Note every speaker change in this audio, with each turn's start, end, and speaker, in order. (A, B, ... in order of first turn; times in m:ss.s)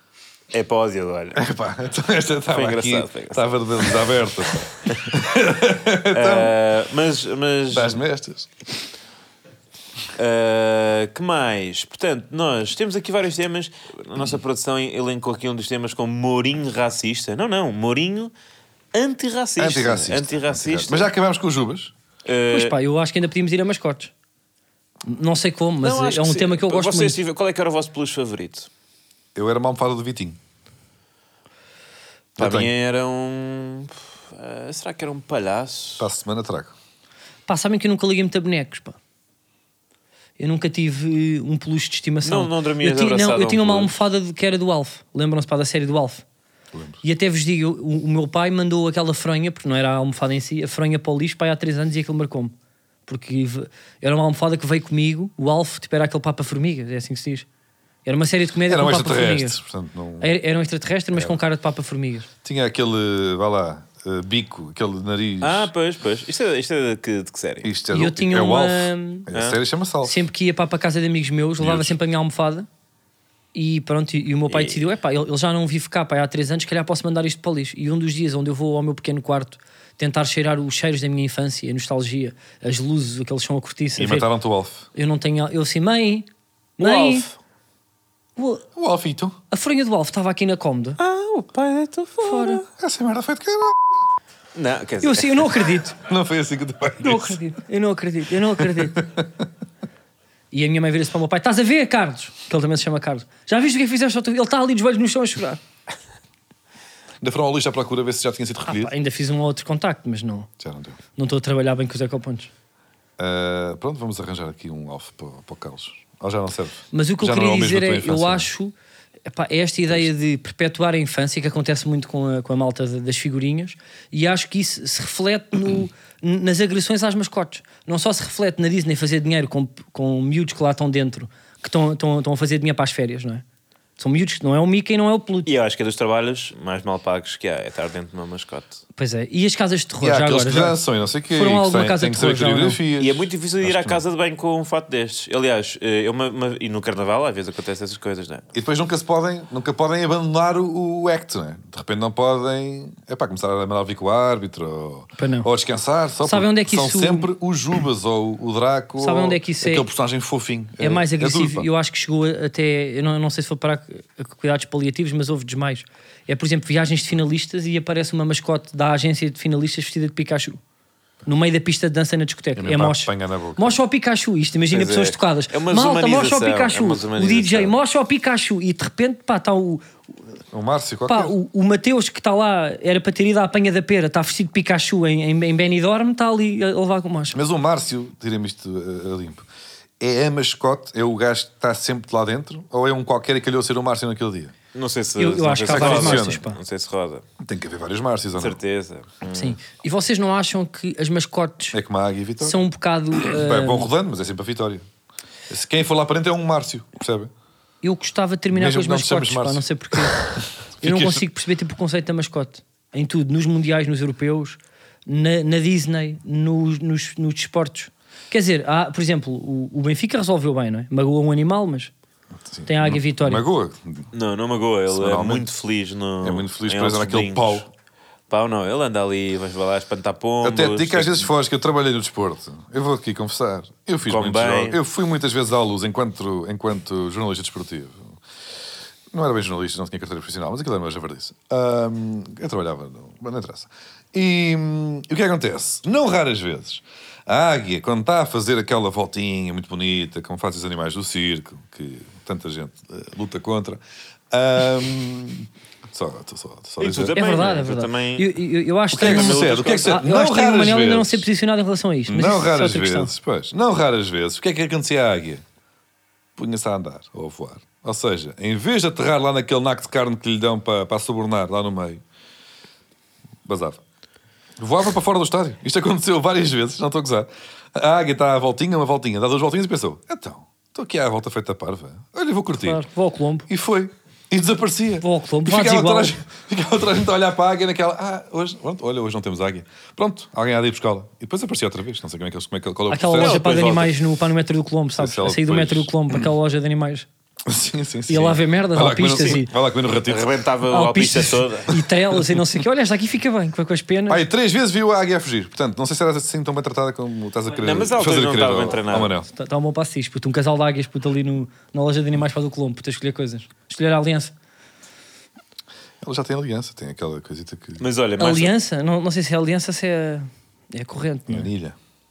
0:00.5-0:01.4 A
0:01.4-0:06.5 B
0:02.5-0:04.1 A
0:06.1-0:08.0 A
0:07.7-0:08.5 B
0:10.2-0:18.3 A
0:18.9-0:21.1 A
0:19.6-0:21.9 B
0:22.3-0:22.7 A
0:22.5-0:24.1 C
0:25.0-0:27.2 C
0:25.8-0:28.7 A
0:29.4-0:30.4 B
0:32.4-0:32.7 B
0:32.4-0:36.1 A
0:36.0-0:36.8 B
0:37.5-0:39.0 C
0:40.4-0:46.2 C
0:42.2-0:44.0 A
0:46.7-0:47.0 B
0:47.0-0:52.5 C
0:53.1-0:57.5 C
0:58.0-0:59.6 C
0:58.7-1:00.3 B
1:00.2-1:02.3 C
1:02.4-1:05.7 B
1:05.4-1:07.7 A
1:07.6-1:10.2 B
1:07.9-1:09.3 C
1:09.3-1:09.6 A
1:10.0-1:12.7 C
1:11.6-1:12.0 B
1:13.5-1:24.3 C
1:14.5-1:14.9 A
1:24.0-1:24.9 B
1:25.0-1:26.3 C
1:26.8-1:27.3 C
1:26.8-1:27.3 A
1:28.4-1:28.7 C
1:28.8-1:29.4 B
1:29.5-1:31.0 C
1:31.0-1:32.6 A
1:32.2-1:32.6 C
1:32.8-1:33.8 B
1:34.6-1:35.5 A
1:35.0-1:36.0 C
1:36.0-1:37.4 B
1:37.0-1:39.1 C
1:38.9-1:39.3 B
1:40.5-1:45.6 C
1:47.2-1:48.9 B
1:48.7-1:50.5 C
1:50.6-1:51.0 B
1:51.2-1:52.5 C
1:53.2-1:58.5 B
1:56.9-1:58.7 C
1:59.3-2:13.4 C
2:14.0-2:15.5 C
2:15.5-2:18.8 A
2:19.0-2:22.8 C
2:20.0-2:24.0 B
2:23.0-2:28.5 A
2:28.5-2:41.7 B
2:35.2-2:35.5 C
2:36.2-2:37.3 C
2:39.0-2:39.8 C
2:40.8-2:50.6 C
2:51.3-2:59.9 C
2:52.6-2:53.8 B
2:54.7-2:57.8 A
3:00.5-3:01.4 B
3:01.1-3:07.4 C
3:07.3-3:09.5 B
3:10.0-3:14.5 B
3:14.7-3:17.2 A
3:15.2-3:16.6 C
3:15.7-3:16.4 B
3:17.4-3:18.6 B
3:18.4-3:19.6 A
3:19.3-3:21.8 C
3:21.7-3:22.6 B
3:22.4-3:23.9 C
3:23.2-3:24.8 B
3:25.5-3:27.3 B
3:27.8-3:41.9 C
3:28.5-3:30.0 B
3:30.8-3:31.2 B
3:42.4-3:44.1 B
3:42.7-3:43.4 C
3:44.1-3:47.7 A
3:44.9-3:45.5 B
3:46.2-3:47.7 B
3:48.3-3:51.3 A
3:50.4-3:58.1 B
3:54.1-3:54.8 A
3:59.1-4:17.2 B
4:16.8-4:18.3 A
4:17.1-4:23.1 C
4:18.9-4:21.3 B
4:19.0-4:20.0 A
4:22.1-4:25.4 B
4:26.4-4:32.0 B
4:33.5-4:33.8 B
4:34.6-4:42.8 B
4:42.6-4:43.5 C
4:43.5-4:53.4 B
4:45.0-4:46.2 C
4:52.9-4:57.1 C
4:53.2-4:54.0 A
4:55.0-4:56.3 B
4:57.5-5:00.3 B
4:58.1-4:59.5 C
5:00.0-5:01.8 A
5:00.7-5:04.2 C
5:04.1-5:09.3 B
5:07.5-5:09.1 A
5:09.3-5:14.3 C
5:16.0-5:17.8 B
5:17.8-5:18.5 A
5:18.2-5:21.5 C
5:21.3-5:21.8 B